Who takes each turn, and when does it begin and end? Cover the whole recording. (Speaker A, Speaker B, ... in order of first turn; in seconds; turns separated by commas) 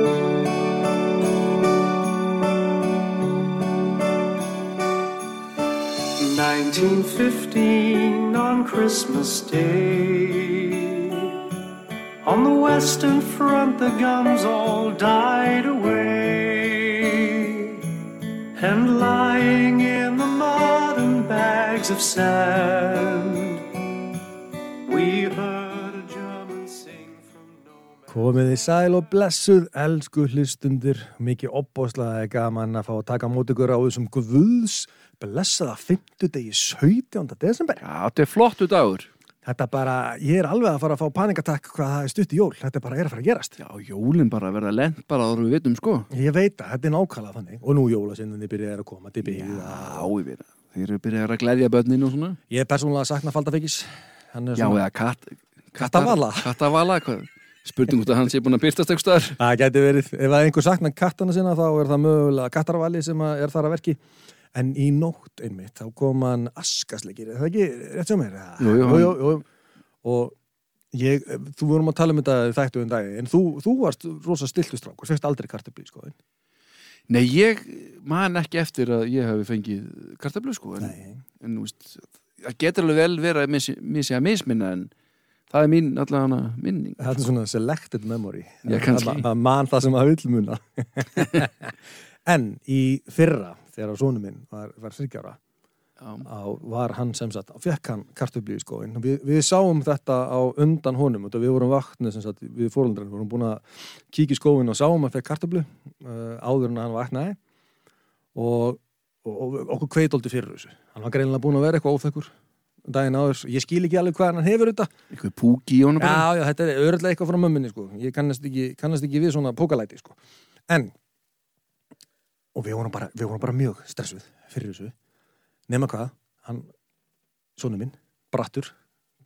Speaker A: 6.2-11.5, Speaker A: 12.2-23.8, Speaker A: 24.8-28.2, Speaker B: 28.1-37.8, Speaker C: 37.8-39.1, Speaker B: 39.4-43.6, Speaker C: 43.6-46.1, Speaker B: 46.1-50.1, Speaker C: 49.2-52.4, Speaker B: 52.5-54.8, Speaker C: 54.5-59.4, Speaker B: 55.8-56.5, Speaker B: 59.4-64.0, Speaker B: 64.5-69.4, Speaker C: 68.6-69.2, Speaker B: 70.0-70.3, Speaker B: 70.9-76.1, Speaker C: 77.1-84.9, Speaker B: 80.8-81.2, Speaker C: 85.5-87.2, Speaker B: 87.0-91.7, Speaker C: 88.6-89.2, Speaker B: 92.2-95.4, Speaker C: 96.0-96.2, Speaker B: 96.2-107.4, Speaker B: 108.3-112.3, Speaker B: 112.9-114.9, Speaker C: 115.1-116.2, Speaker B: 116.0-120.2, Speaker B: 120.7-120.9, Speaker B: 122.5-124.9, Speaker B: 125.7-126.7, Speaker B: 127.6-128.7